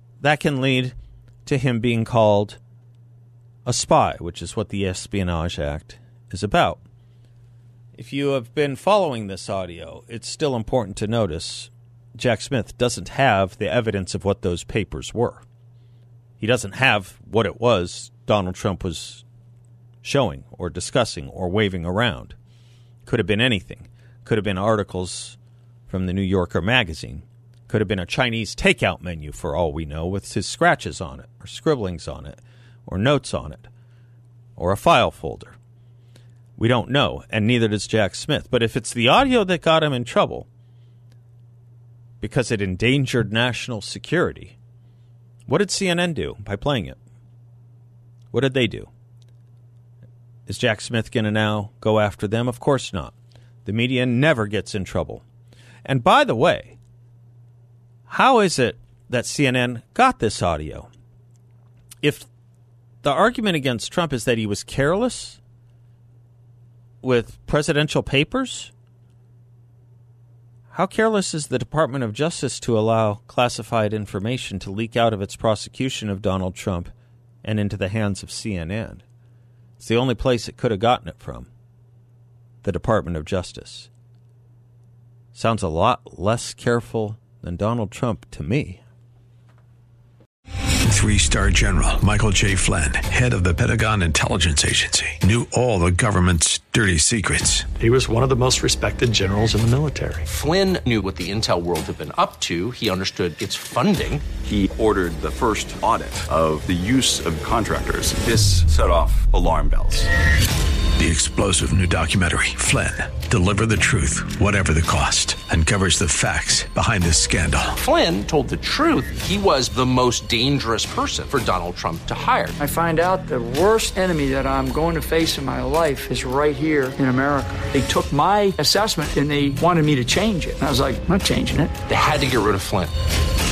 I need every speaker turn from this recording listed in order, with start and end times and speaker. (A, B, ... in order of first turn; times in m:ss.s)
0:00.2-0:02.6 A
0:03.7-0:06.8 A
0:08.0-0:15.4 A
0:16.4-0:19.2 A
0:20.0-0:22.4 A
0:23.1-0:25.4 A
0:25.9-0:33.7 A
0:34.6-0:35.6 A
0:36.6-0:40.5 A
0:42.2-0:44.6 A
0:45.5-0:47.0 A
0:48.3-0:48.9 A
0:50.5-0:53.1 A
0:53.6-0:55.2 A
0:55.8-0:56.8 A
0:58.1-1:00.9 A
1:02.0-1:02.3 A
1:03.0-1:05.4 A
1:07.0-1:08.7 A
1:10.7-1:16.9 A
1:17.4-1:19.0 A
1:19.8-1:21.5 A
1:22.6-1:23.9 A
1:25.4-1:28.8 A
1:30.9-1:37.7 B
1:37.8-1:40.2 C
1:40.2-1:44.3 D
1:44.4-1:50.1 E
1:51.0-1:57.8 B
1:57.8-2:02.6 D
2:02.6-2:11.7 F
2:11.9-2:12.9 D